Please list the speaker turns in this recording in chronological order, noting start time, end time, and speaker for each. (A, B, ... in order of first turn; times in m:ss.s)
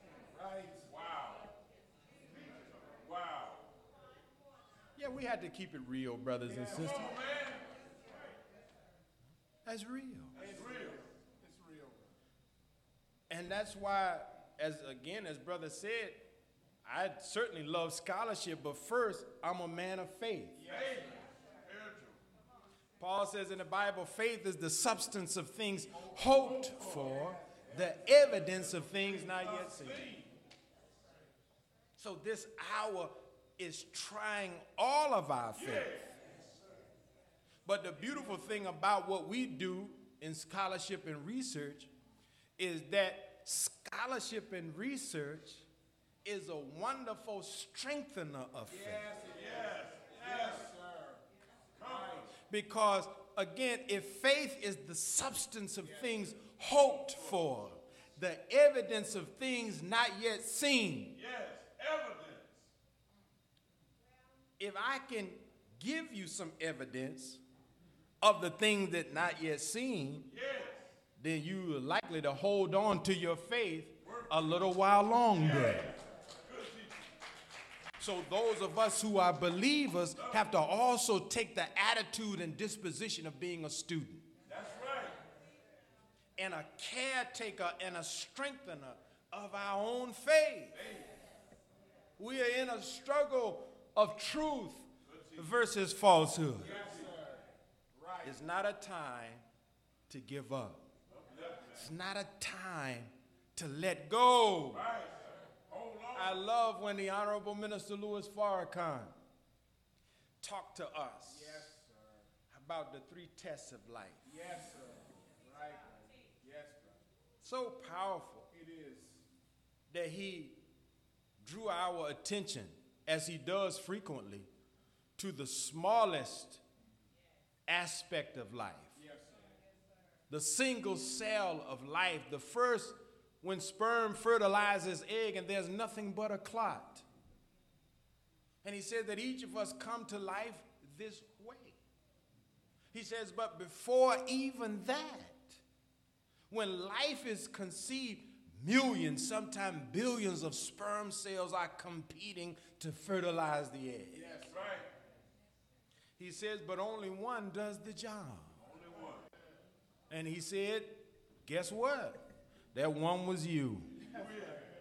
0:00.3-0:00.9 A
0:00.9-0:01.5 B
0:02.9-0:03.6 B
0:05.0-0:07.1 C
0:06.5-0:07.1 A
0:06.8-0:07.6 B
0:09.6-0:10.4 C
0:10.3-0:11.0 B
0:10.3-0:12.1 A
0:13.3-0:16.3 C
0:16.8-0:20.6 C
0:20.6-0:21.1 A
0:20.6-0:22.2 B
0:23.0-0:30.1 C
0:26.0-0:27.9 A
0:28.9-0:30.3 B
0:32.0-0:36.0 C
0:37.6-0:41.9 C
0:42.6-0:45.6 C
0:46.2-0:49.1 C
0:48.7-0:51.2 A
0:49.3-0:50.6 B
0:51.8-0:52.3 A
0:51.8-0:52.2 B
0:52.5-1:01.2 C
0:55.8-0:56.3 A
1:01.1-1:02.7 B
1:04.6-1:07.4 C
1:08.2-1:10.3 C
1:10.3-1:10.8 B
1:11.2-1:15.9 C
1:15.6-1:15.9 B
1:16.4-1:16.9 B
1:18.0-1:24.3 C
1:24.5-1:25.2 B
1:26.4-1:30.8 C
1:30.8-1:31.0 B
1:32.2-1:36.8 C
1:35.1-1:35.4 B
1:36.6-1:38.4 A
1:38.2-1:39.4 C
1:40.1-1:40.9 C
1:41.1-1:41.8 B
1:41.7-1:44.9 C
1:44.7-1:46.3 B
1:46.1-1:49.1 C
1:50.4-1:51.7 C
1:51.3-1:52.2 A
1:52.5-1:54.4 C
1:54.2-1:57.0 A
1:57.4-1:58.5 C
1:58.5-1:59.2 A
1:59.9-2:00.6 C
2:01.4-2:04.5 C
2:05.2-2:06.6 C
2:07.7-2:08.9 C
2:09.0-2:09.5 A
2:10.3-2:17.0 C
2:18.6-2:21.8 C
2:22.9-2:25.6 C
2:26.5-2:34.2 C
2:34.1-2:34.8 A
2:34.5-2:34.8 B
2:36.2-2:38.5 C
2:38.6-2:39.3 B
2:40.1-2:42.2 C
2:42.7-2:44.1 C
2:44.1-2:44.6 B